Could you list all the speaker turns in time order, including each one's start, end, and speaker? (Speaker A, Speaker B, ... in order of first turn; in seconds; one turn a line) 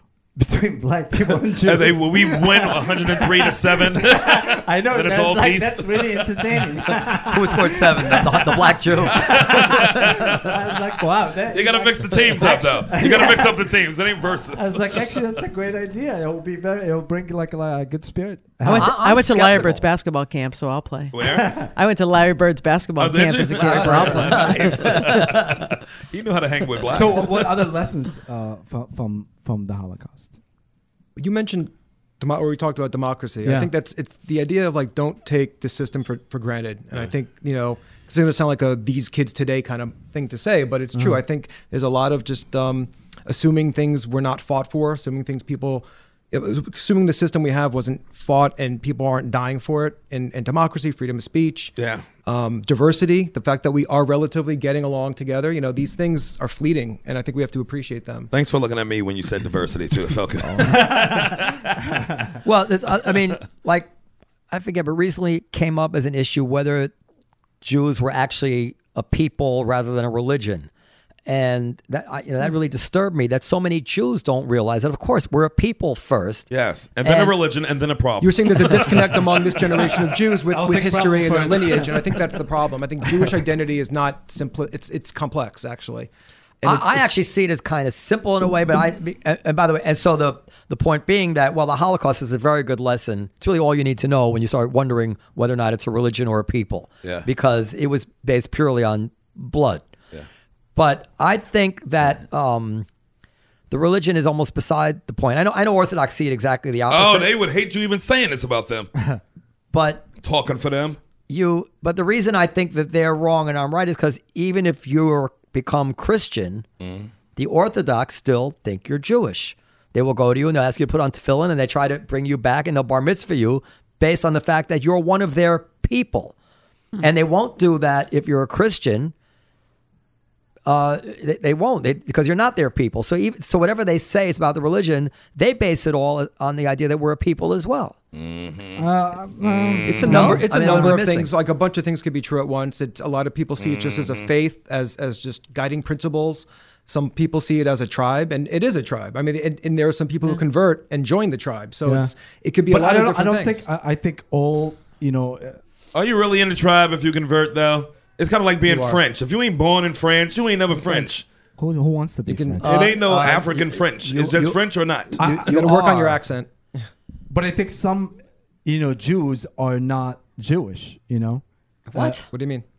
Speaker A: 0.3-13.7
Speaker B: 1.6-6.3
Speaker C: 7.3-10.2
Speaker B: 9.1-10.6
Speaker B: 11.5-15.2
Speaker A: 14.5-19.0
Speaker D: 18.6-25.2
Speaker C: 18.7-19.8
Speaker B: 21.1-21.5
Speaker A: 21.3-21.7
Speaker B: 23.0-27.6
Speaker A: 23.6-25.0
Speaker C: 24.4-25.7
Speaker A: 26.9-30.3
Speaker E: 31.2-51.7
Speaker A: 33.4-33.7
Speaker A: 40.9-41.2
Speaker B: 51.8-52.0
Speaker E: 52.2-58.3
Speaker B: 58.3-61.6
Speaker A: 60.4-62.4
Speaker C: 62.4-63.9
Speaker C: 64.5-66.9
Speaker C: 67.6-70.7
Speaker C: 71.3-76.5
Speaker B: 76.5-80.0
Speaker C: 77.0-77.3
Speaker E: 78.2-86.1
Speaker A: 80.5-82.3
Speaker E: 86.6-87.1
Speaker C: 86.6-99.9
Speaker C: 100.8-102.9
Speaker C: 103.7-107.3
Speaker B: 106.9-108.9
Speaker C: 109.7-110.1
Speaker B: 110.2-111.0
Speaker C: 111.3-116.7
Speaker B: 116.8-117.1
Speaker C: 117.3-126.3
Speaker C: 127.0-129.1
Speaker C: 130.7-138.0
Speaker B: 138.1-138.9
Speaker A: 138.8-141.0
Speaker B: 139.4-140.3
Speaker E: 139.8-153.6
Speaker C: 140.0-141.3
Speaker B: 143.6-144.3
Speaker A: 151.8-152.1
Speaker A: 152.7-155.6
Speaker B: 155.9-161.2
Speaker E: 158.7-159.0
Speaker A: 160.7-162.9
Speaker E: 162.3-163.3
Speaker C: 162.6-164.5
Speaker B: 162.6-165.3
Speaker E: 165.2-166.5
Speaker A: 165.2-165.6
Speaker C: 165.5-166.1
Speaker A: 167.3-171.4
Speaker C: 171.9-172.2
Speaker E: 172.0-172.6